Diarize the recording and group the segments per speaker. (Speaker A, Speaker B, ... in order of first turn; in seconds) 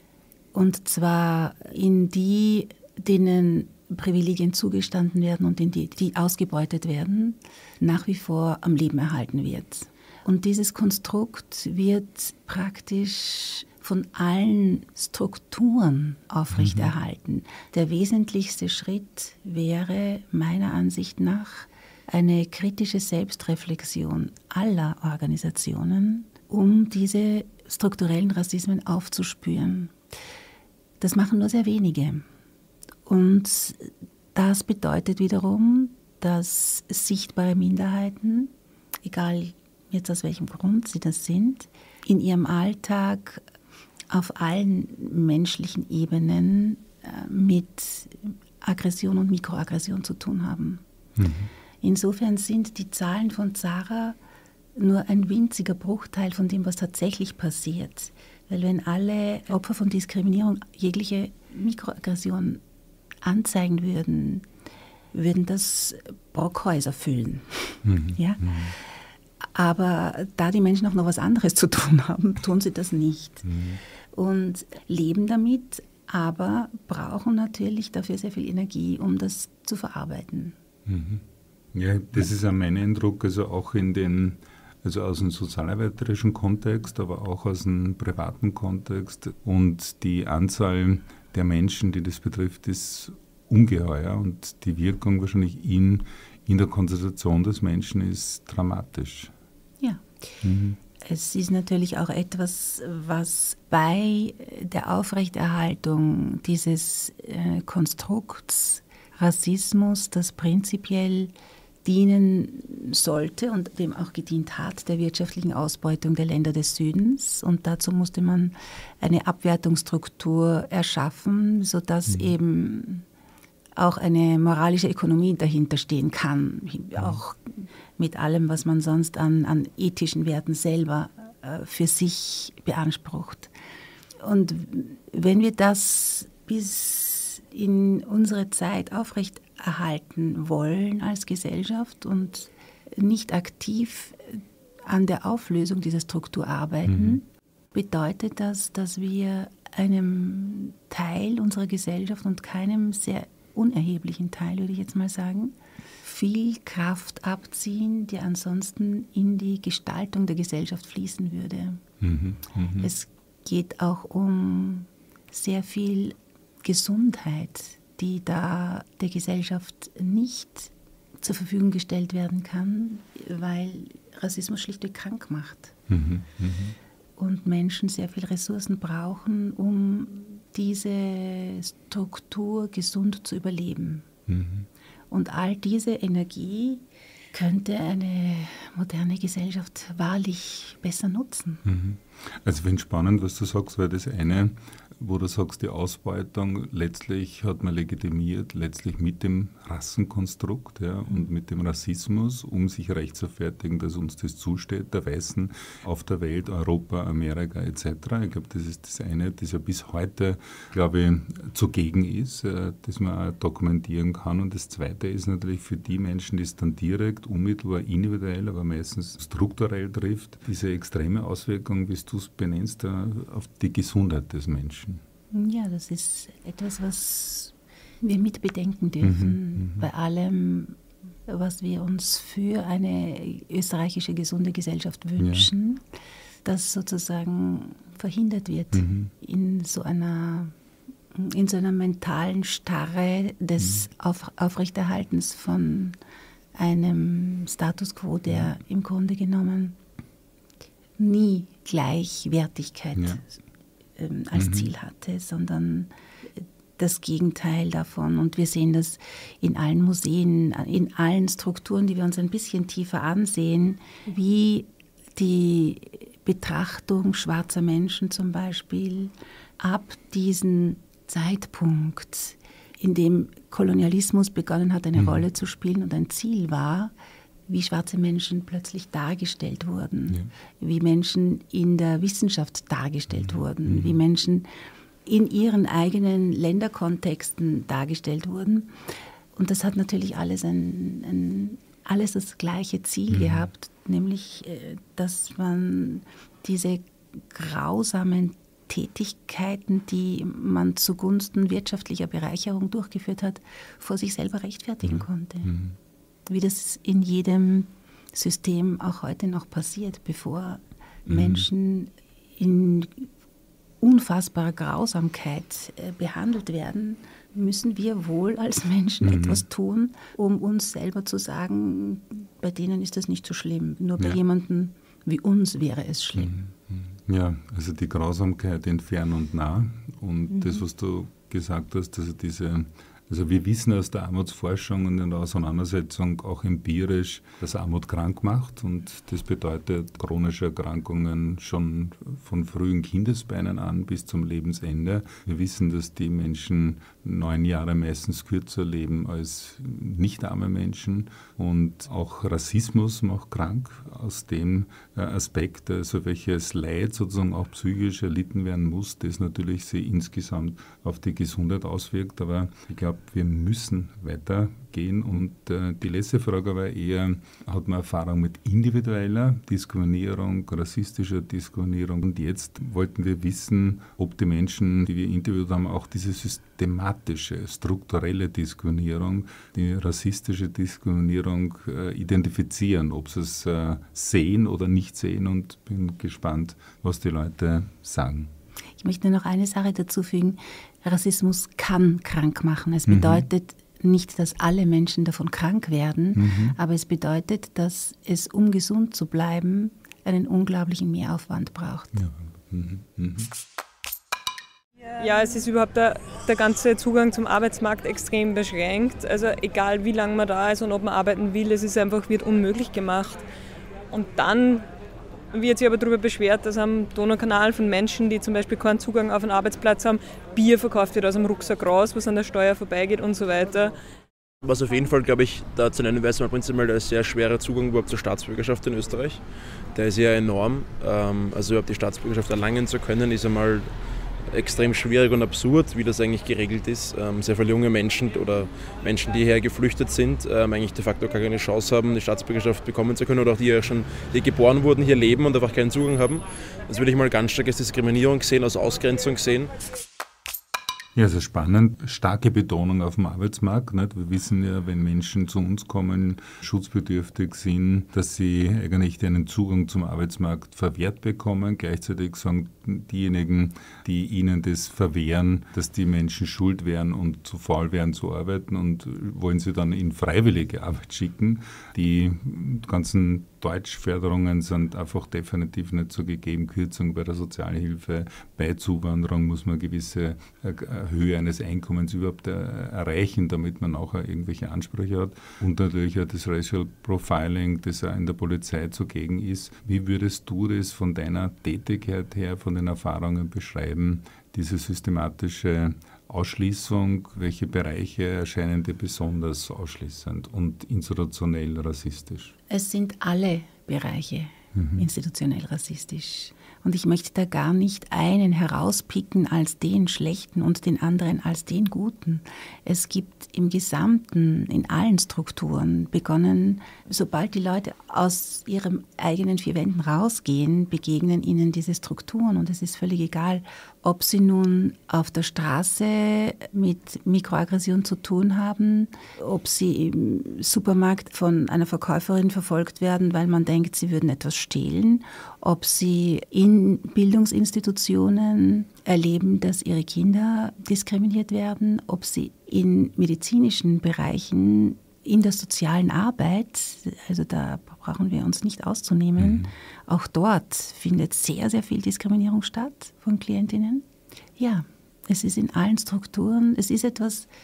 Speaker A: 0.5-30.0, 31.0-32.2, 33.1-38.5, 39.0-43.4, 44.1-50.8, 51.8-54.2, 54.8-62.6, 63.2-64.5, 65.1-68.7, 69.4-73.5, 74.1-80.6, 99.8-100.1, 101.0-111.3, 111.8-123.1, 123.8-133.5, 134.2-161.8, 162.8-175.8, 177.2-184.1, 185.1-191.6, 225.3-235.8, 236.4-240.5, 241.1-246.0, 246.6-249.8, 251.0-253.2, 254.0-276.9, 277.5-284.5, 285.1-288.7, 289.4-305.6, 306.3-313.1, 313.8-326.3, 330.3-330.6, 388.8-402.0, 502.5-553.9, 554.4-557.3
Speaker B: 16.5-16.9, 51.2-51.5, 67.8-68.8, 73.4-73.8, 80.9-99.3, 100.4-100.8, 122.1-122.3, 146.9-147.2, 162.0-162.9, 175.9-176.8, 184.3-184.7, 191.7-225.0, 229.0-229.9, 235.2-235.5, 238.7-239.1, 243.6-243.9, 252.9-253.2, 254.4-254.7, 275.0-275.2, 283.1-284.0, 293.1-293.5, 304.8-305.8, 311.1-311.5, 319.0-319.4, 326.1-388.3, 392.9-393.3, 396.2-396.6, 401.9-403.3, 450.9-502.3, 504.6-504.9, 549.2-549.5
Speaker C: 405.0-413.2, 413.9-414.7, 415.3-423.8
Speaker D: 424.4-429.2, 429.8-433.7, 434.3-449.5